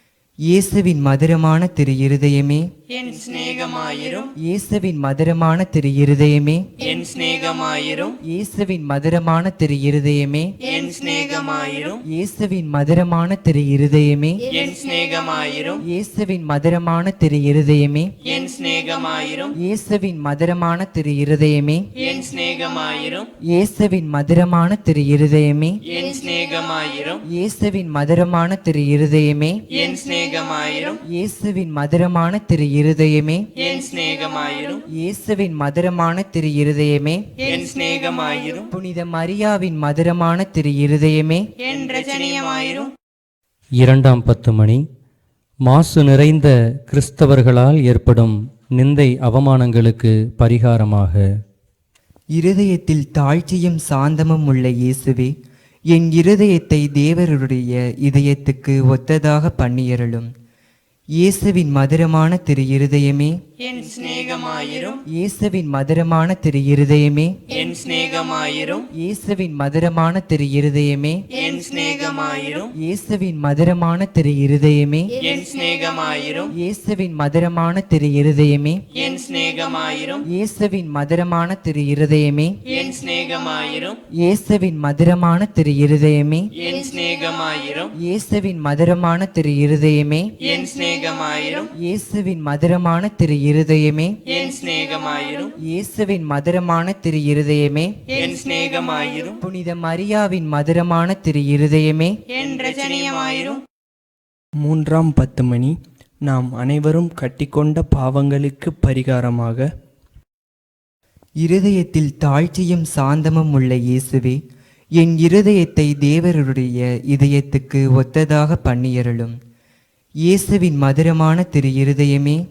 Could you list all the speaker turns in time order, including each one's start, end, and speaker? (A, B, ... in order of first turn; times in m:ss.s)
0:00.5-0:02.6 A
0:02.9-0:04.3 B
0:04.4-0:06.6 A
0:06.8-0:08.2 B
0:08.2-0:10.5 A
0:10.6-0:12.0 B
0:12.0-0:14.5 A
0:14.5-0:15.8 B
0:15.8-0:18.1 A
0:18.2-0:19.5 B
0:19.6-0:21.8 A
0:22.0-0:23.3 B
0:23.4-0:25.8 A
0:25.9-0:27.2 B
0:27.2-0:29.6 A
0:29.7-0:31.0 B
0:31.0-0:33.5 A
0:33.6-0:34.8 B
0:34.9-0:37.2 A
0:37.4-0:38.7 B
0:38.7-0:41.5 A
0:41.6-0:42.9 B
0:43.8-0:44.8 C
0:45.6-0:51.2 C
0:52.3-0:55.3 A
0:55.9-1:00.3 A
1:01.2-1:03.3 A
1:03.6-1:05.0 B
1:05.1-1:07.3 A
1:07.5-1:08.8 B
1:08.9-1:11.2 A
1:11.3-1:12.7 B
1:12.7-1:15.2 A
1:15.2-1:16.5 B
1:16.5-1:18.8 A
1:18.9-1:20.2 B
1:20.3-1:22.6 A
1:22.7-1:24.0 B
1:24.1-1:26.5 A
1:26.6-1:27.9 B
1:28.0-1:30.3 A
1:30.4-1:31.7 B
1:31.7-1:34.2 A
1:34.3-1:35.5 B
1:35.6-1:37.9 A
1:38.1-1:39.4 B
1:39.4-1:42.2 A
1:42.3-1:43.6 B
1:44.6-1:45.7 D
1:46.2-1:49.6 D
1:51.4-1:54.4 A
1:55.0-1:59.3 A
2:00.2-2:02.4 A